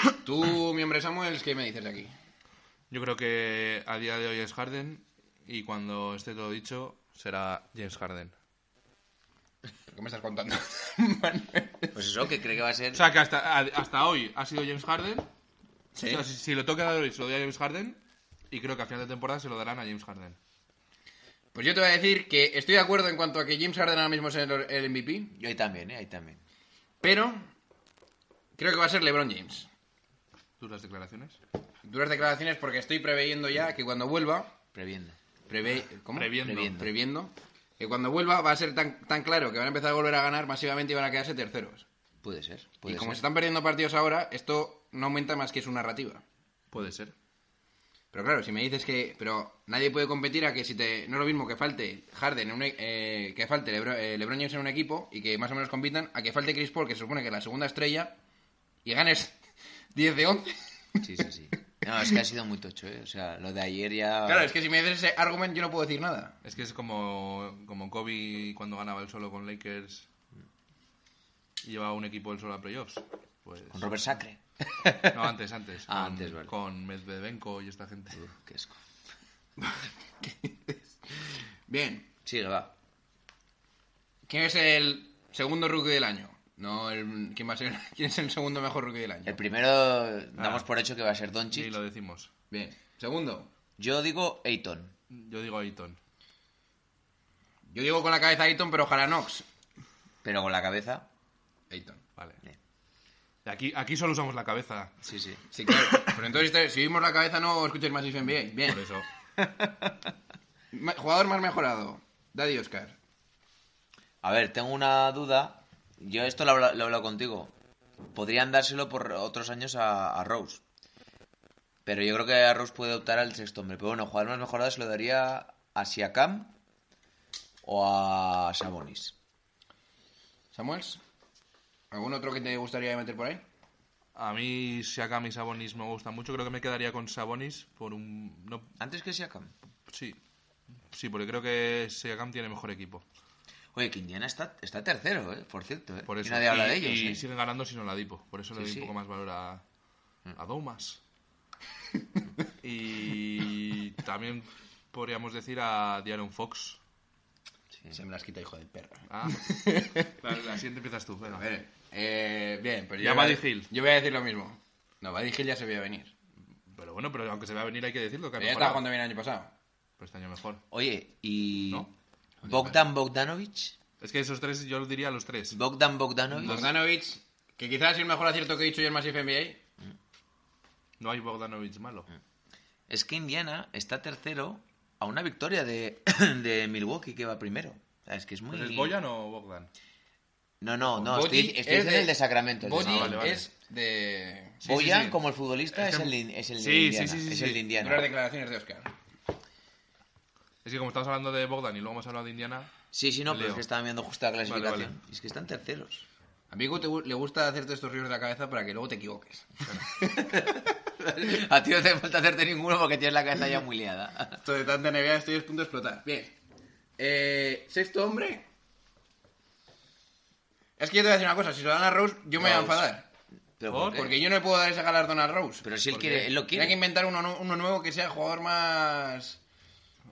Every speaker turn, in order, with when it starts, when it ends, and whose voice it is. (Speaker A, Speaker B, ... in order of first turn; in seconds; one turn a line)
Speaker A: 0.2-2.1
Speaker B: 2.9-8.3
Speaker A: 9.9-11.9
Speaker C: 11.9-13.0
Speaker B: 12.9-15.3
Speaker A: 15.9-16.2
Speaker B: 16.1-18.0
Speaker B: 18.5-20.4
Speaker A: 21.6-25.4
Speaker C: 25.4-26.4
Speaker A: 27.0-27.5
Speaker A: 28.6-29.7
Speaker B: 30.6-31.4
Speaker A: 31.8-34.5
Speaker C: 34.7-35.2
Speaker A: 35.5-41.9
Speaker B: 36.1-36.8
Speaker C: 36.4-36.9
Speaker C: 42.2-43.2
Speaker A: 42.9-46.2
Speaker B: 46.7-47.1
Speaker A: 48.1-58.2
Speaker A: 58.9-59.4
Speaker A: 59.9-61.0
Speaker C: 61.0-64.5
Speaker A: 64.3-66.4
Speaker B: 66.4-70.1
Speaker B: 71.6-73.9
Speaker C: 73.7-75.3
Speaker B: 75.1-78.2
Speaker C: 75.9-76.5
Speaker C: 78.1-78.8
Speaker A: 79.6-80.8
Speaker A: 81.7-82.1
Speaker C: 82.2-82.7
Speaker A: 84.3-89.4
Speaker C: 89.2-91.8
Speaker B: 90.4-90.7
Speaker B: 91.5-92.3
Speaker A: 92.5-93.5
Speaker C: 93.8-94.9
Speaker B: 95.1-96.0
Speaker A: 97.7-99.5
Speaker C: 100.2-101.1
Speaker A: 101.7-102.0
Speaker B: 103.5-105.0
Speaker C: 105.0-105.4
Speaker A: 105.5-108.9
Speaker B: 105.7-106.2
Speaker B: 108.7-109.0
Speaker A: 110.7-113.0
Speaker C: 114.2-117.5
Speaker C: 118.1-120.6
Speaker C: 121.8-126.5
Speaker C: 127.6-129.2
Speaker A: 130.5-131.0
Speaker A: 131.9-133.4
Speaker B: 134.2-138.7
Speaker C: 138.8-139.5
Speaker B: 139.9-140.2
Speaker B: 140.9-143.0
Speaker C: 143.7-147.2
Speaker B: 146.1-149.6
Speaker C: 148.6-148.9
Speaker B: 150.3-151.0
Speaker B: 152.6-156.8
Speaker A: 157.9-160.2
Speaker B: 159.1-159.4
Speaker B: 160.2-161.4
Speaker A: 161.3-166.1
Speaker B: 163.0-163.7
Speaker B: 166.7-168.9
Speaker A: 168.4-169.5
Speaker B: 170.0-170.6
Speaker C: 170.7-171.9
Speaker A: 172.4-172.8
Speaker C: 172.4-173.8
Speaker B: 174.0-175.6
Speaker C: 175.5-176.7
Speaker A: 176.4-179.6
Speaker B: 181.0-182.1
Speaker C: 182.9-189.0
Speaker B: 188.5-189.7
Speaker C: 190.6-193.4
Speaker A: 191.0-194.6
Speaker B: 192.8-193.5
Speaker B: 194.6-195.2
Speaker C: 194.7-198.1
Speaker B: 195.7-197.6
Speaker A: 197.8-198.9
Speaker B: 200.6-202.7
Speaker C: 202.9-206.1
Speaker B: 203.3-203.6
Speaker B: 204.5-204.9
Speaker A: 206.5-210.6
Speaker C: 210.3-210.6
Speaker C: 211.2-214.4
Speaker A: 214.4-216.3
Speaker A: 217.0-218.5
Speaker A: 220.8-223.1
Speaker C: 222.4-222.9
Speaker C: 223.6-224.2
Speaker B: 223.7-224.1
Speaker A: 223.9-225.7
Speaker C: 225.6-226.8
Speaker B: 225.9-226.3
Speaker A: 226.5-229.4